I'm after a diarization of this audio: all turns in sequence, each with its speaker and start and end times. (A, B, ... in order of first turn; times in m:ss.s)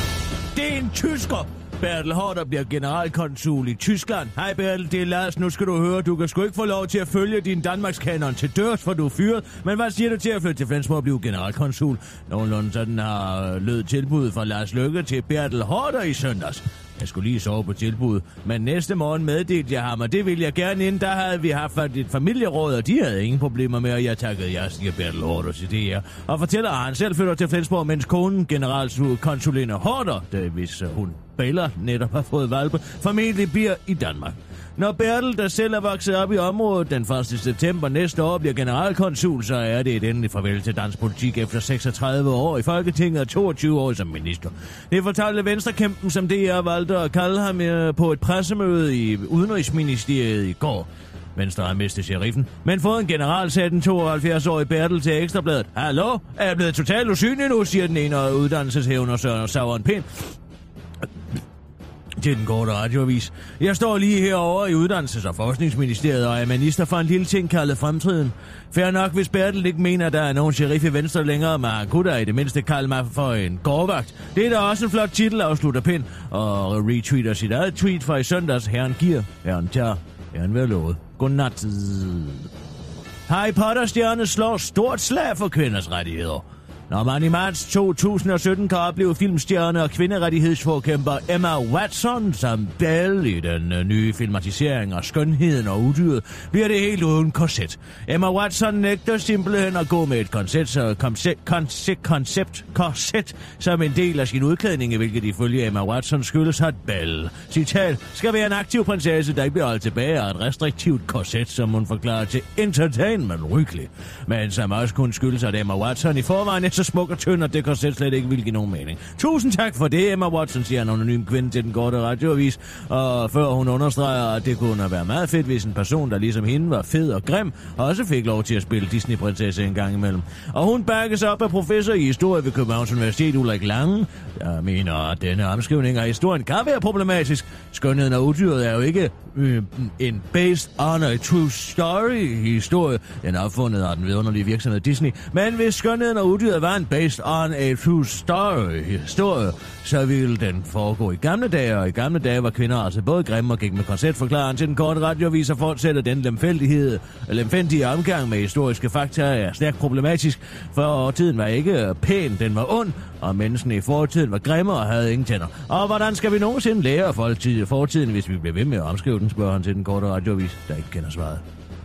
0:00.5-1:00.3 A
1:02.2-1:22.5 A
1:23.3-2:51.4 A